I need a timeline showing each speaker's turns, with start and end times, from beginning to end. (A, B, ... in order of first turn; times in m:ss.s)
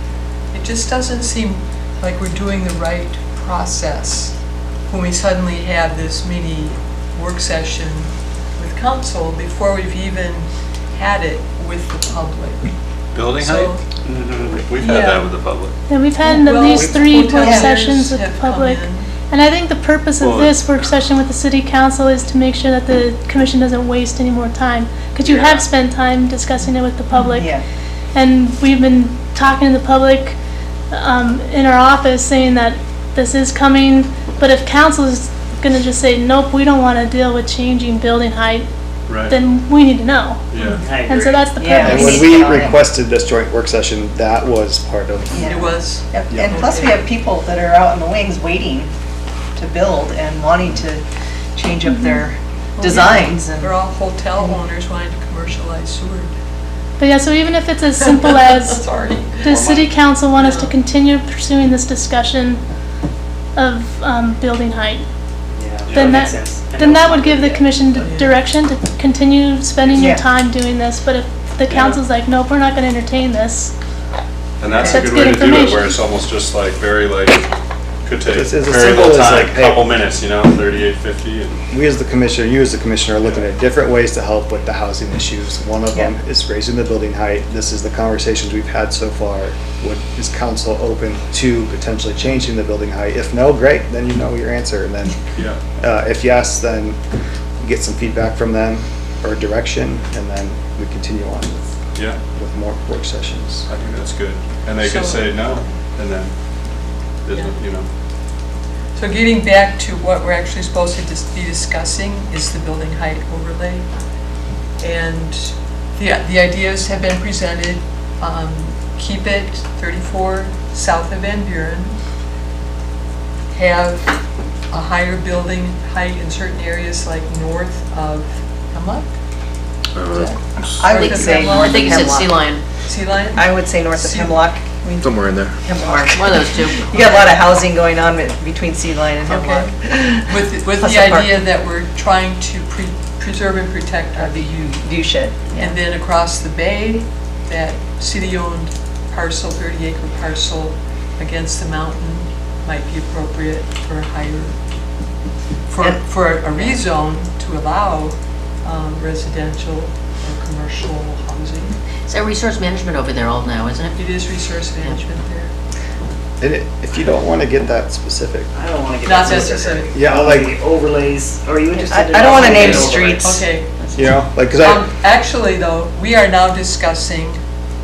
0:00.5-0:04.4 A
0:04.9-0:12.7 A
0:13.1-0:13.8 B
0:13.3-0:13.8 A
0:14.0-0:14.6 C
0:14.6-0:15.8 B
0:14.8-0:15.3 A
0:15.9-0:27.6 D
0:16.2-0:19.1 A
0:16.7-0:17.8 E
0:20.2-0:20.9 B
0:25.2-0:25.6 B
0:27.2-0:27.6 E
0:28.1-0:30.4 D
0:30.9-0:38.7 D
0:39.1-0:39.4 B
0:39.2-0:42.5 D
0:40.5-0:41.0 B
0:40.8-0:41.5 C
0:41.5-0:42.8 E
0:41.8-0:45.5 F
0:45.3-0:48.9 E
0:45.5-0:47.0 A
0:46.3-0:46.7 F
0:49.5-0:51.0 E
0:51.5-0:53.8 E
0:51.8-0:52.2 D
0:52.8-0:56.3 A
0:57.0-0:58.8 D
0:58.2-0:59.7 A
0:59.4-1:02.6 D
0:59.5-0:59.8 B
1:00.3-1:00.8 A
1:03.6-1:05.0 D
1:05.5-1:07.6 C
1:05.9-1:06.1 B
1:05.9-1:13.7 D
1:07.9-1:08.4 A
1:09.9-1:10.2 E
1:11.7-1:12.0 B
1:14.6-1:21.6 B
1:14.7-1:15.0 A
1:14.9-1:16.0 D
1:18.2-1:19.9 F
1:21.7-1:35.2 F
1:23.2-1:23.5 B
1:35.8-1:37.0 F
1:37.6-1:43.7 F
1:41.9-1:42.2 B
1:43.7-1:47.8 B
1:44.8-1:45.7 A
1:48.9-1:53.9 A
1:54.8-2:02.0 A
2:03.5-2:09.1 A
2:10.0-2:14.4 A
2:10.8-2:12.4 E
2:10.9-2:12.6 G
2:13.3-2:21.4 E
2:15.8-2:17.1 G
2:19.3-2:24.9 A
2:24.2-2:25.8 E
2:25.5-2:34.6 A
2:35.7-2:41.8 A
2:42.0-2:44.0 G
2:44.0-2:45.5 A
2:46.4-2:48.5 F
2:48.5-2:53.4 C
2:49.0-2:50.0 A
2:49.9-2:50.6 F
2:51.7-2:53.4 E
2:52.4-2:53.7 A
2:53.9-2:54.9 F
2:54.4-2:57.4 A